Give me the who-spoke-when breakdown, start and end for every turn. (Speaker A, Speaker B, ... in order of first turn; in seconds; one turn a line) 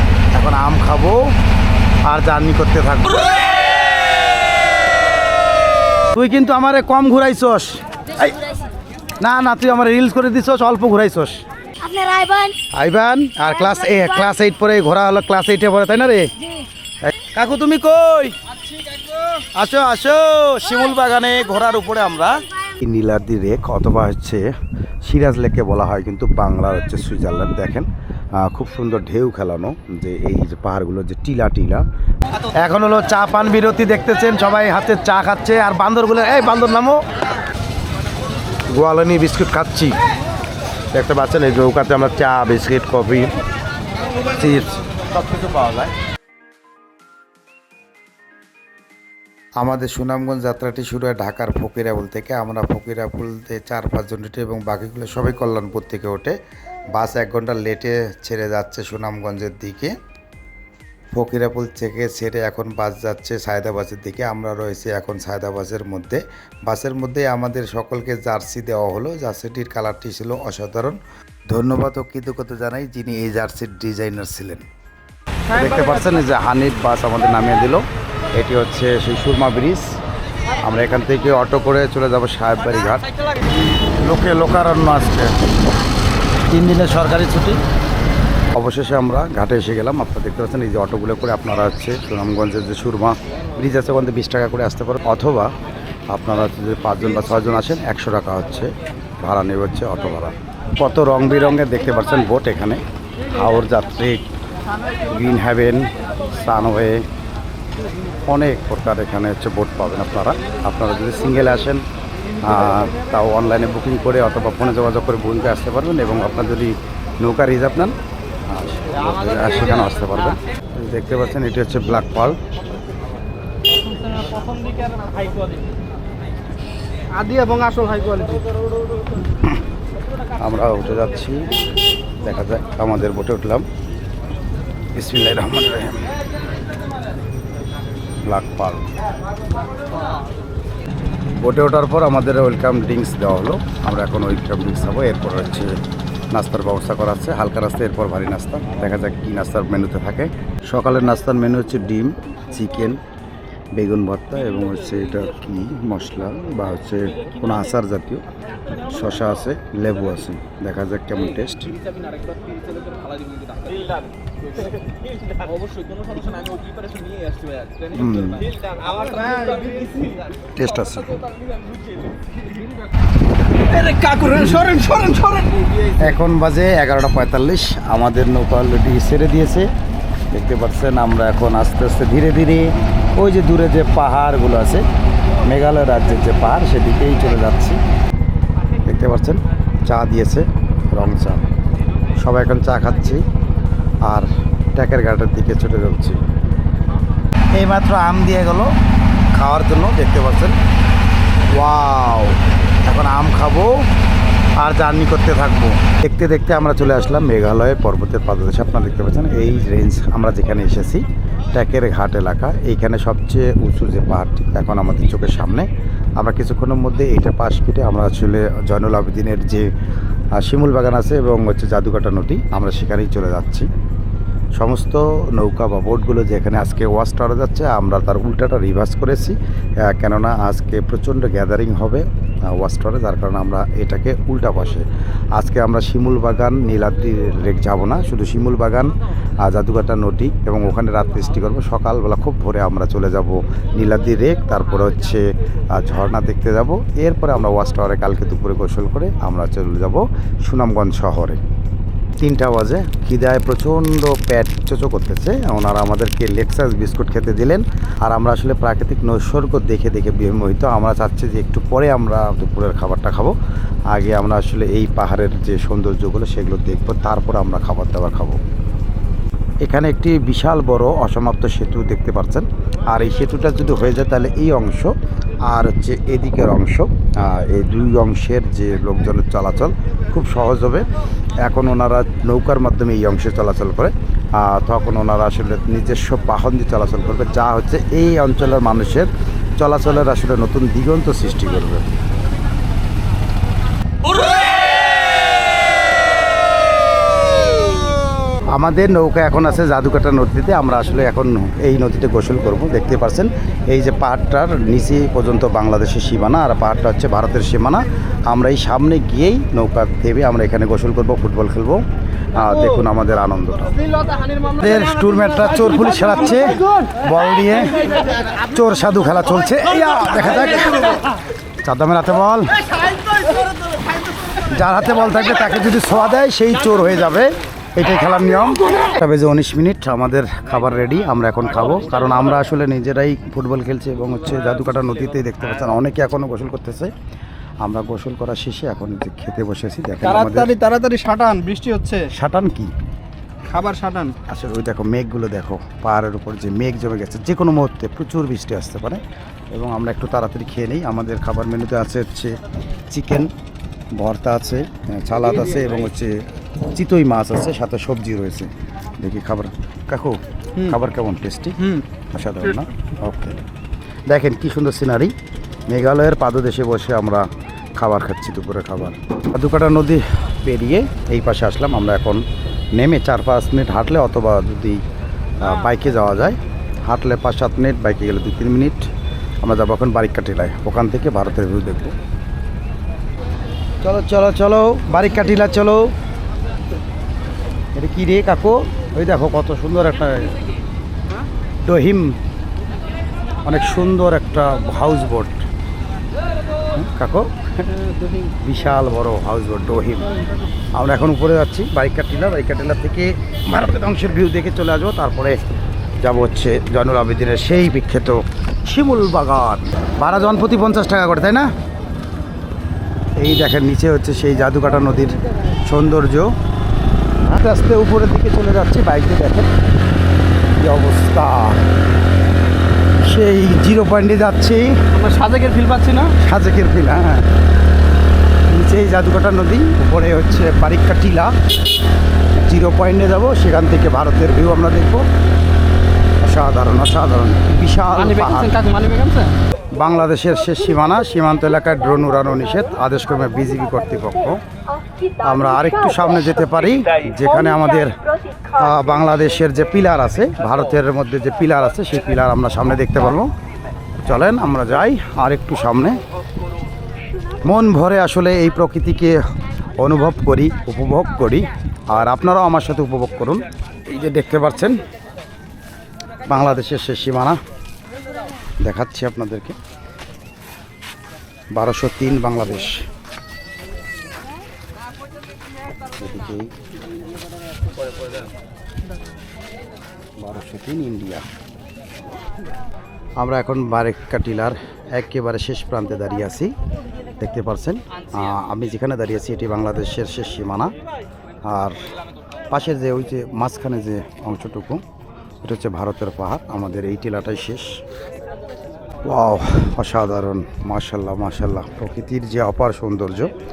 Speaker A: 0.3-1.2
Speaker A: 2.0-3.3
Speaker A: 6.1-8.3
Speaker A: 9.2-11.4
Speaker B: 11.8-12.6
Speaker A: 12.7-16.3
Speaker B: 13.5-14.3
Speaker B: 16.4-16.7
Speaker A: 17.0-18.3
Speaker A: 19.6-24.5
Speaker A: 25.0-31.8
Speaker A: 32.6-37.0
Speaker A: 38.7-40.0
Speaker A: 40.9-43.3
Speaker A: 44.4-44.8
Speaker A: 49.6-56.4
Speaker A: 56.9-59.9
Speaker A: 61.1-71.0
Speaker A: 71.5-74.6
Speaker C: 75.5-76.0
Speaker A: 75.5-77.8
Speaker A: 78.3-79.9
Speaker A: 80.6-83.0
Speaker A: 84.0-85.3
Speaker A: 86.5-87.6
Speaker A: 88.5-95.5
Speaker A: 96.1-102.8
Speaker A: 103.3-104.2
Speaker A: 105.1-107.0
Speaker A: 108.3-111.8
Speaker A: 112.4-117.9
Speaker A: 118.5-122.4
Speaker C: 123.9-124.6
Speaker C: 127.1-128.4
Speaker A: 130.4-131.4
Speaker A: 132.2-133.6
Speaker A: 134.9-136.0
Speaker A: 138.3-138.8
Speaker A: 141.4-145.7
Speaker A: 146.3-153.0
Speaker A: 153.7-158.2
Speaker A: 158.8-161.7
Speaker C: 163.1-163.7
Speaker C: 165.8-166.6
Speaker C: 167.2-167.7
Speaker A: 167.9-168.5
Speaker C: 168.8-170.2
Speaker A: 170.5-171.2
Speaker C: 173.7-175.9
Speaker A: 176.0-179.7
Speaker A: 180.3-184.8
Speaker A: 185.4-187.8
Speaker A: 188.8-191.4
Speaker A: 192.2-193.2
Speaker A: 194.0-196.2
Speaker A: 197.5-198.7
Speaker A: 199.3-200.6
Speaker A: 201.5-203.8
Speaker A: 204.6-219.7
Speaker A: 220.3-223.7
Speaker A: 224.6-251.4
Speaker A: 252.2-263.3
Speaker A: 263.9-268.4
Speaker A: 269.6-274.9
Speaker A: 275.5-280.9
Speaker A: 281.4-291.9
Speaker A: 298.5-311.8
Speaker A: 312.3-313.7
Speaker A: 314.6-317.8
Speaker A: 318.5-321.0
Speaker A: 321.6-322.5
Speaker A: 324.5-336.9
Speaker A: 337.6-340.5
Speaker C: 340.0-342.1
Speaker A: 342.1-342.7
Speaker C: 343.5-344.1
Speaker A: 344.3-349.0
Speaker A: 349.5-352.4
Speaker A: 352.9-353.3
Speaker A: 353.9-356.1
Speaker A: 356.7-358.5
Speaker A: 359.0-361.6
Speaker A: 362.1-363.4
Speaker A: 364.1-365.1
Speaker A: 365.7-372.2
Speaker A: 372.7-374.8
Speaker A: 375.4-378.9
Speaker A: 379.4-381.9
Speaker A: 383.8-385.9
Speaker A: 387.7-390.3
Speaker A: 391.6-392.1
Speaker A: 393.4-395.4
Speaker A: 396.7-397.7
Speaker A: 398.4-400.1
Speaker A: 400.7-405.4
Speaker A: 406.0-411.5
Speaker A: 413.2-416.3
Speaker A: 417.2-419.5
Speaker A: 420.6-421.6
Speaker A: 423.0-424.8
Speaker C: 424.9-426.1
Speaker A: 426.2-427.2
Speaker A: 428.5-431.3
Speaker A: 432.4-435.0
Speaker A: 436.2-438.6
Speaker C: 437.9-439.3
Speaker A: 439.7-444.4
Speaker A: 445.2-448.0
Speaker A: 448.5-453.3
Speaker A: 454.0-456.0
Speaker A: 457.4-459.2
Speaker A: 459.8-464.8
Speaker A: 466.3-467.4
Speaker A: 468.6-469.6
Speaker A: 471.5-472.8
Speaker A: 476.0-476.5
Speaker A: 480.2-481.2
Speaker A: 483.2-486.5
Speaker A: 487.2-490.7
Speaker A: 491.4-491.8
Speaker A: 492.5-494.8
Speaker A: 495.4-497.8
Speaker A: 499.0-503.3